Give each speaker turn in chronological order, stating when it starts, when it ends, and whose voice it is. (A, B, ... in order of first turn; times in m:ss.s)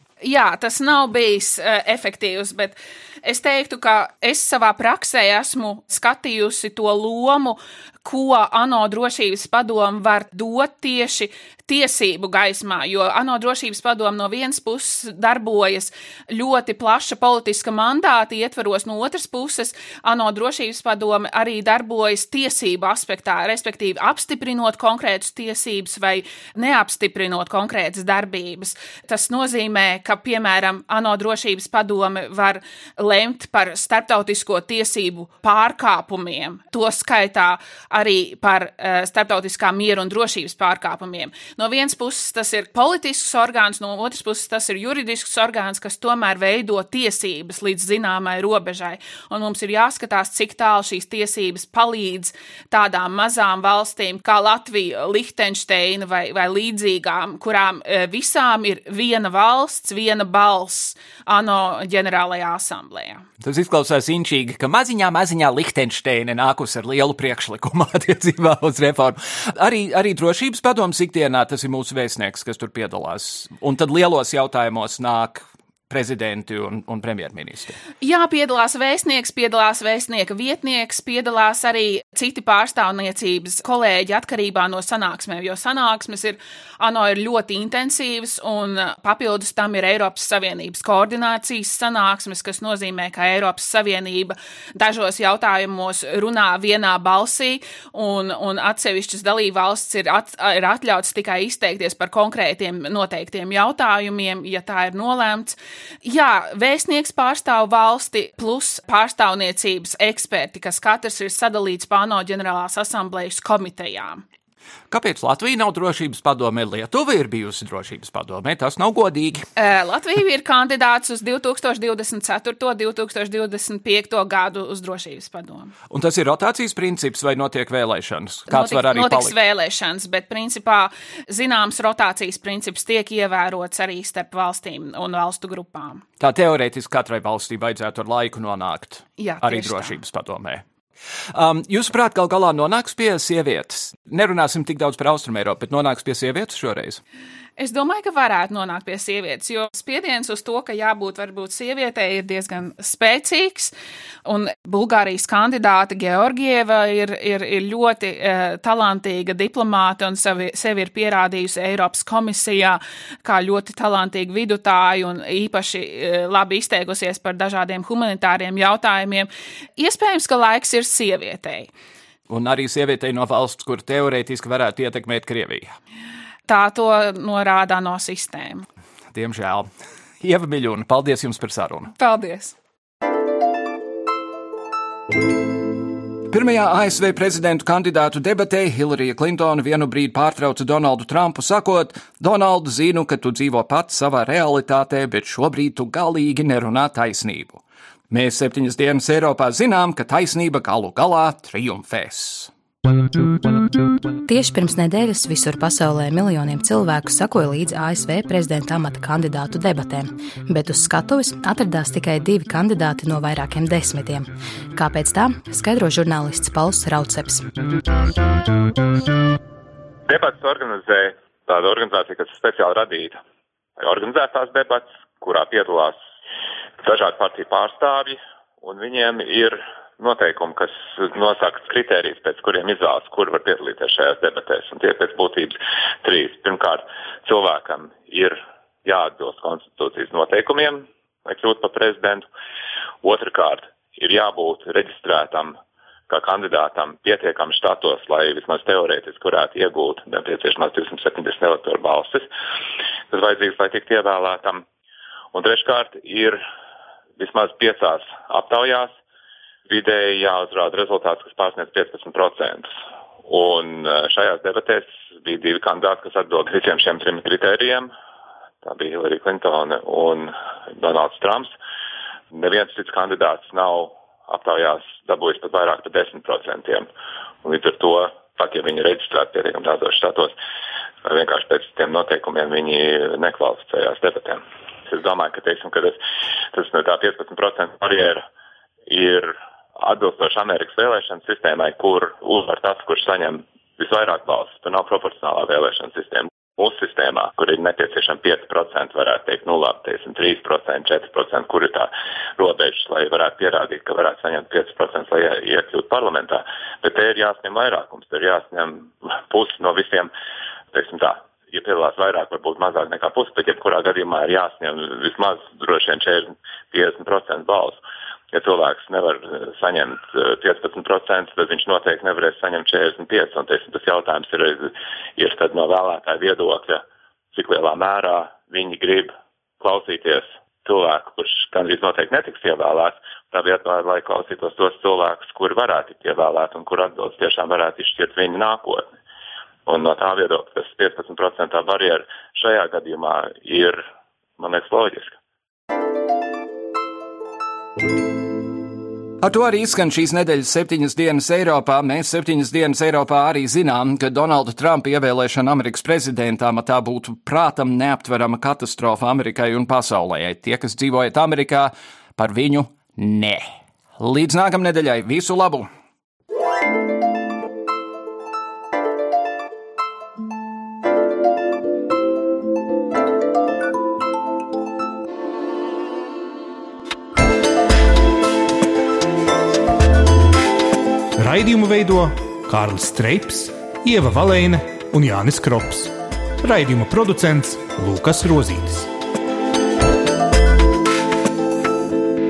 0:00.2-1:03.2 A
1:03.4-1:17.8 B
1:18.0-1:54.2 A
1:54.9-1:59.5 B
1:59.6-2:05.7 A
2:05.9-2:09.4 B
2:08.5-2:16.0 A
2:16.2-2:20.6 B
2:19.2-2:20.0 A
2:21.3-2:27.0 B
2:27.6-2:33.7 A
2:34.3-2:51.7 A
2:52.3-2:55.7 B
2:56.5-2:58.7 A
2:59.1-2:59.7 B
3:00.2-3:01.9 B
3:02.0-3:02.6 A
3:06.3-3:22.5 B
3:24.2-3:37.5 C
3:40.1-3:43.2 D
3:43.8-3:46.0 D
3:46.8-4:02.3 D
4:03.0-4:05.6 D
4:06.1-4:12.3 D
4:13.1-4:14.6 D
4:15.3-4:16.4 D
4:17.2-4:19.0 D
4:19.7-4:22.7 D
4:23.2-4:27.9 D
4:28.6-4:31.5 D
4:32.3-4:36.9 D
4:37.4-4:40.3 D
4:41.0-4:46.0 D
4:46.5-4:48.3 D
4:48.9-5:10.1 D
5:10.7-5:17.8 D
5:18.3-5:26.8 D
5:27.3-5:38.9 D
5:39.7-5:43.8 D
5:44.4-5:45.1 D
5:49.2-6:05.7 B
6:21.2-6:28.9 E